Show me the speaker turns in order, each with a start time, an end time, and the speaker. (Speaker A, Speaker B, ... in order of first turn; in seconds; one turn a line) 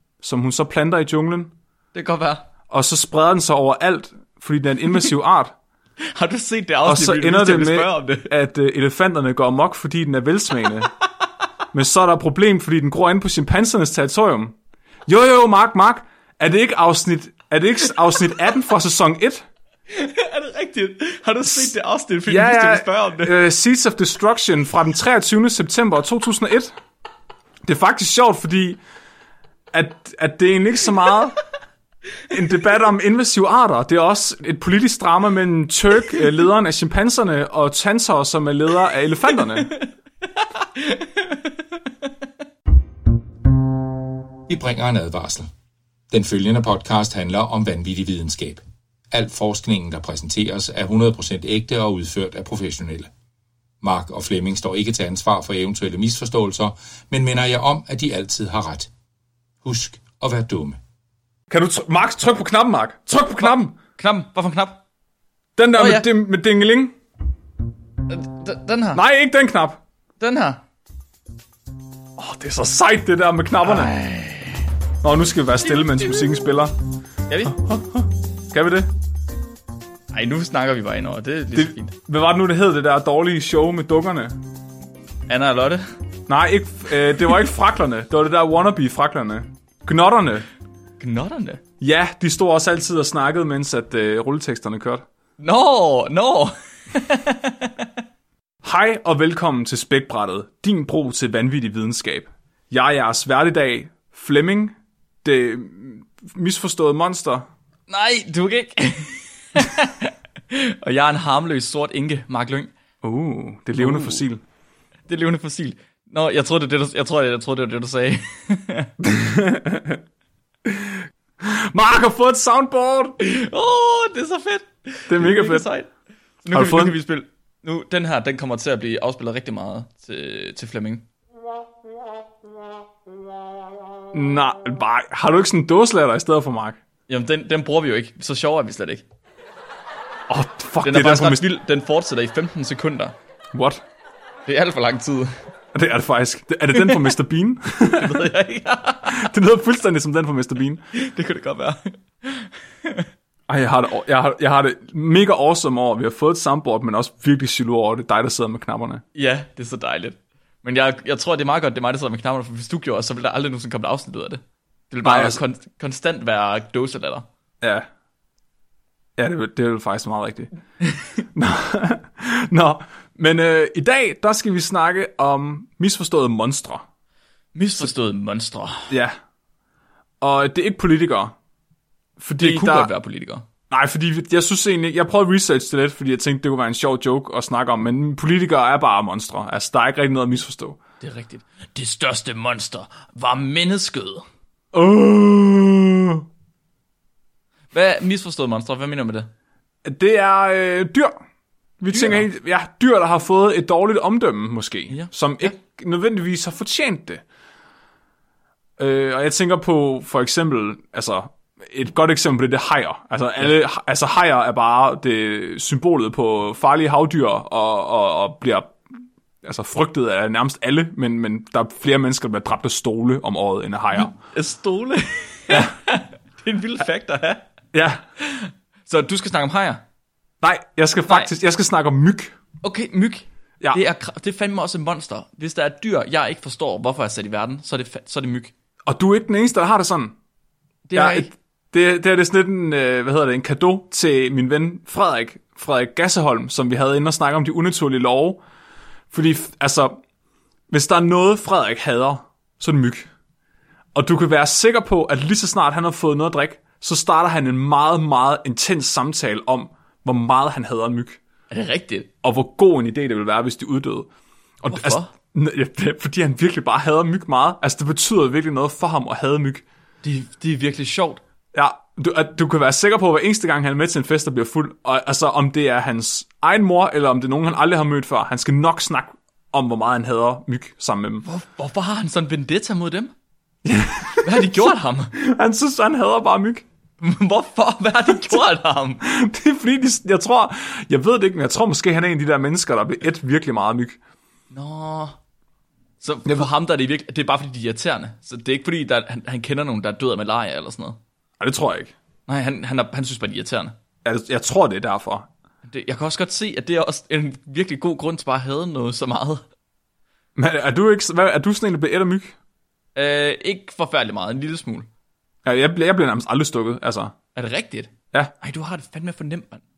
Speaker A: 0.2-1.5
Speaker B: 1.9-2.5
Speaker A: 2.7-5.5
Speaker B: 6.1-8.3
Speaker A: 6.8-10.9
Speaker A: 11.7-14.5
Speaker A: 15.1-19.4
Speaker B: 19.9-23.3
Speaker A: 22.3-26.7
Speaker A: 27.6-28.8
Speaker A: 29.7-31.4
Speaker A: 32.3-39.7
Speaker B: 39.5-41.6
Speaker C: 44.5-45.5
Speaker C: 46.1-53.1
Speaker C: 53.8-58.9
Speaker C: 59.6-60.8
Speaker A: 61.5-63.8
Speaker B: 63.4-64.8
Speaker A: 65.6-66.9
Speaker B: 65.8-66.1
Speaker B: 68.1-69.0
Speaker A: 68.9-69.8
Speaker B: 70.2-70.6
Speaker A: 72.2-74.0
Speaker B: 73.6-74.6
Speaker A: 75.0-76.7
Speaker B: 77.3-77.5
Speaker A: 77.5-78.9
Speaker B: 80.1-81.9
Speaker A: 81.5-84.3
Speaker B: 85.3-85.9
Speaker A: 86.3-90.5
Speaker B: 91.0-91.6
Speaker A: 91.8-95.0
Speaker B: 95.4-97.9
Speaker A: 98.6-104.7
Speaker A: 105.2-107.5
Speaker B: 107.9-112.7
Speaker A: 113.0-114.4
Speaker B: 113.8-114.2
Speaker B: 115.1-118.9
Speaker A: 119.0-120.0
Speaker A: 120.7-123.2
Speaker B: 123.2-125.9
Speaker A: 125.1-125.6
Speaker B: 126.4-131.0
Speaker A: 126.5-127.0
Speaker A: 134.1-136.8
Speaker B: 137.1-139.0
Speaker A: 140.3-141.4
Speaker B: 140.8-143.2
Speaker A: 143.5-143.8
Speaker B: 144.4-145.3
Speaker A: 145.7-148.3
Speaker B: 146.8-147.1
Speaker B: 147.9-149.3
Speaker A: 149.1-150.8
Speaker B: 150.9-153.1
Speaker A: 153.5-159.0
Speaker B: 159.1-167.2
Speaker A: 165.0-165.4
Speaker A: 167.6-167.8
Speaker A: 169.2-170.5
Speaker A: 171.3-176.8
Speaker B: 177.5-178.9
Speaker A: 178.9-179.1
Speaker A: 180.2-181.3
Speaker A: 182.2-182.9
Speaker B: 182.4-183.4
Speaker A: 183.7-190.8
Speaker B: 191.0-194.2
Speaker A: 194.7-196.2
Speaker B: 197.7-199.3
Speaker A: 199.8-201.1
Speaker A: 201.8-207.2
Speaker B: 201.9-202.2
Speaker B: 204.9-205.5
Speaker A: 208.8-218.7
Speaker A: 219.4-224.2
Speaker B: 223.9-227.4
Speaker A: 227.7-228.0
Speaker B: 228.2-229.8
Speaker A: 230.4-232.3
Speaker B: 231.1-231.3
Speaker B: 232.6-238.5
Speaker A: 238.8-240.1
Speaker B: 240.9-241.3
Speaker A: 240.9-248.4
Speaker A: 249.1-250.0
Speaker A: 250.7-253.1
Speaker A: 253.9-261.2
Speaker B: 261.5-262.1
Speaker A: 262.2-264.1
Speaker A: 264.6-269.6
Speaker B: 264.7-265.1
Speaker B: 270.0-271.2
Speaker A: 271.5-281.2
Speaker B: 281.2-283.1
Speaker A: 283.6-286.6
Speaker B: 284.2-285.1
Speaker B: 287.0-289.0
Speaker A: 289.0-294.0
Speaker B: 294.5-295.2
Speaker B: 296.0-301.0
Speaker A: 301.4-301.9
Speaker B: 302.3-303.7
Speaker A: 304.0-305.3
Speaker B: 305.6-309.4
Speaker A: 310.4-312.3
Speaker B: 312.9-314.9
Speaker A: 315.4-317.1
Speaker B: 317.3-319.6